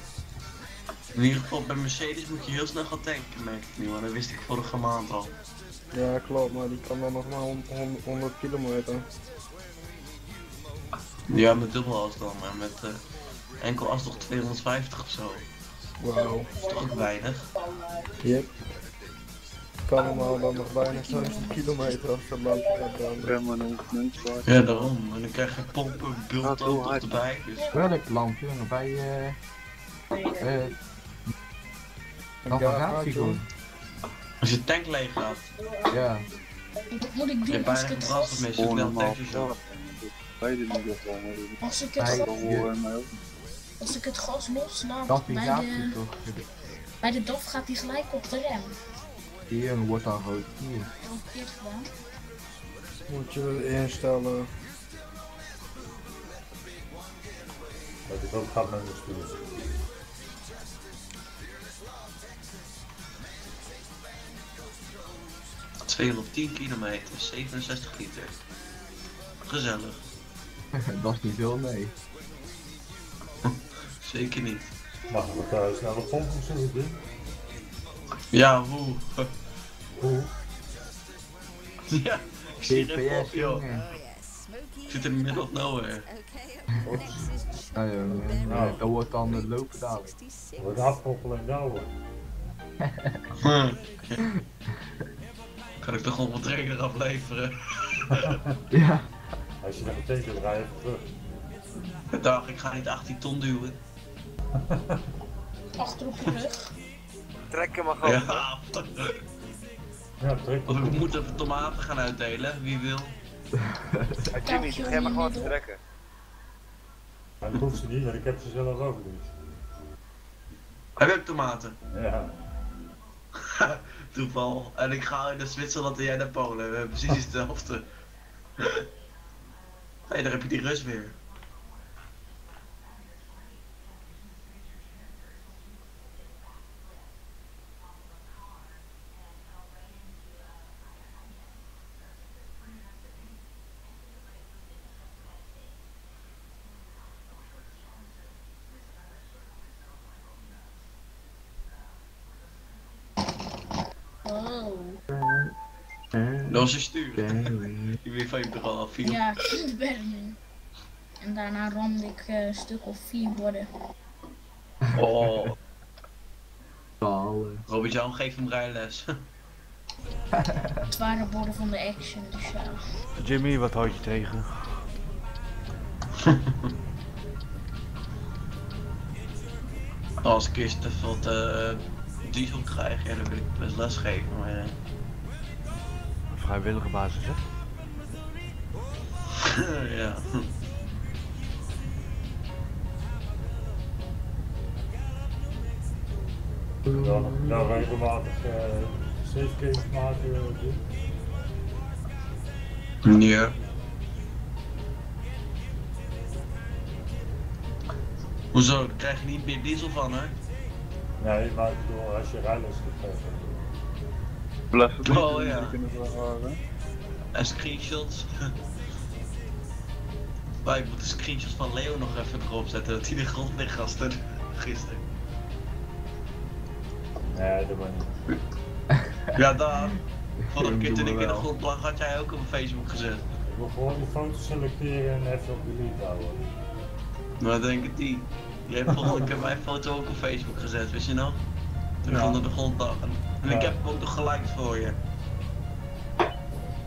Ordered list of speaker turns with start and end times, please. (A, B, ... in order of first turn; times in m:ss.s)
0:01.1-0:05.3 A
0:05.9-0:09.0 B
0:11.3-0:13.0 A
0:13.6-0:15.5 A
0:16.0-0:16.6 B
0:16.6-0:17.5 A
0:17.7-0:18.0 C
0:18.2-0:18.5 B
0:19.9-0:23.4 B
0:20.0-0:22.9 C
0:23.2-0:24.9 D
0:24.4-0:27.6 A
0:26.4-0:27.1 E
0:27.6-0:27.9 C
0:27.7-0:29.4 F
0:30.4-0:30.8 F
0:32.5-0:33.4 B
0:32.5-0:33.5 F
0:34.4-0:35.5 A
0:35.9-0:36.3 F
0:36.9-0:38.5 C
0:37.5-0:39.5 A
0:38.5-0:43.1 D
0:41.6-0:42.3 C
0:42.0-0:42.7 F
0:43.8-0:46.0 C
0:45.1-0:46.5 F
0:47.0-0:48.8 C
0:49.5-0:50.9 F
0:51.0-0:51.9 C
0:53.0-0:54.5 B
0:58.1-0:59.5 G
1:05.9-1:08.3 A
1:09.4-1:10.0 A
1:10.7-1:11.9 F
1:13.5-1:14.7 A
1:15.1-1:17.0 G
1:18.3-1:19.3 A
1:20.0-1:20.3 G
1:21.9-1:23.7 A
1:22.6-1:23.9 F
1:24.9-1:26.0 A
1:26.8-1:30.2 F
1:28.5-1:28.8 G
1:30.6-1:31.9 G
1:32.8-1:33.2 F
1:33.4-1:34.2 A
1:35.8-1:38.3 A
1:38.2-1:38.5 G
1:38.7-1:39.1 F
1:39.6-1:41.2 G
1:42.1-1:43.8 A
1:44.6-1:45.0 G
1:45.8-1:46.7 C
1:47.5-1:48.5 E
1:48.0-1:49.2 A
1:50.2-1:51.1 G
1:50.7-1:53.2 A
1:54.3-1:55.8 E
1:54.4-1:55.5 C
1:57.4-1:59.4 G
2:01.0-2:01.8 A
2:01.9-2:02.4 G
2:03.4-2:07.9 A
2:10.1-2:11.2 A
2:34.2-2:35.0 C
2:35.1-2:35.5 F
2:36.1-2:38.0 F
2:36.5-2:37.5 A
2:38.0-2:39.3 A
2:39.0-2:40.4 C
2:41.2-2:43.7 C
2:44.9-2:45.5 F
2:45.0-2:45.6 A
2:47.0-2:47.6 F
2:47.7-2:49.1 A
2:50.3-2:50.8 F
2:50.9-2:52.8 C
2:53.2-2:54.8 H
2:56.2-2:56.5 A
3:00.2-3:04.8 A
3:06.3-3:07.4 H
3:09.4-3:10.5 A
3:16.9-3:20.8 G
3:23.0-3:23.6 A
3:28.5-3:30.4 A
3:31.2-3:33.7 G
3:34.7-3:36.6 D
3:35.0-3:35.8 A
3:37.3-3:38.5 A
3:40.6-3:45.0 A
3:47.3-3:48.1 G
3:49.0-3:49.4 F
3:49.4-3:49.9 A
3:50.4-3:51.5 F
3:50.5-3:53.3 A
3:53.5-3:56.4 G
3:57.4-4:01.4 A
4:02.0-4:05.0 A
4:02.1-4:02.4 G
4:03.4-4:03.8 G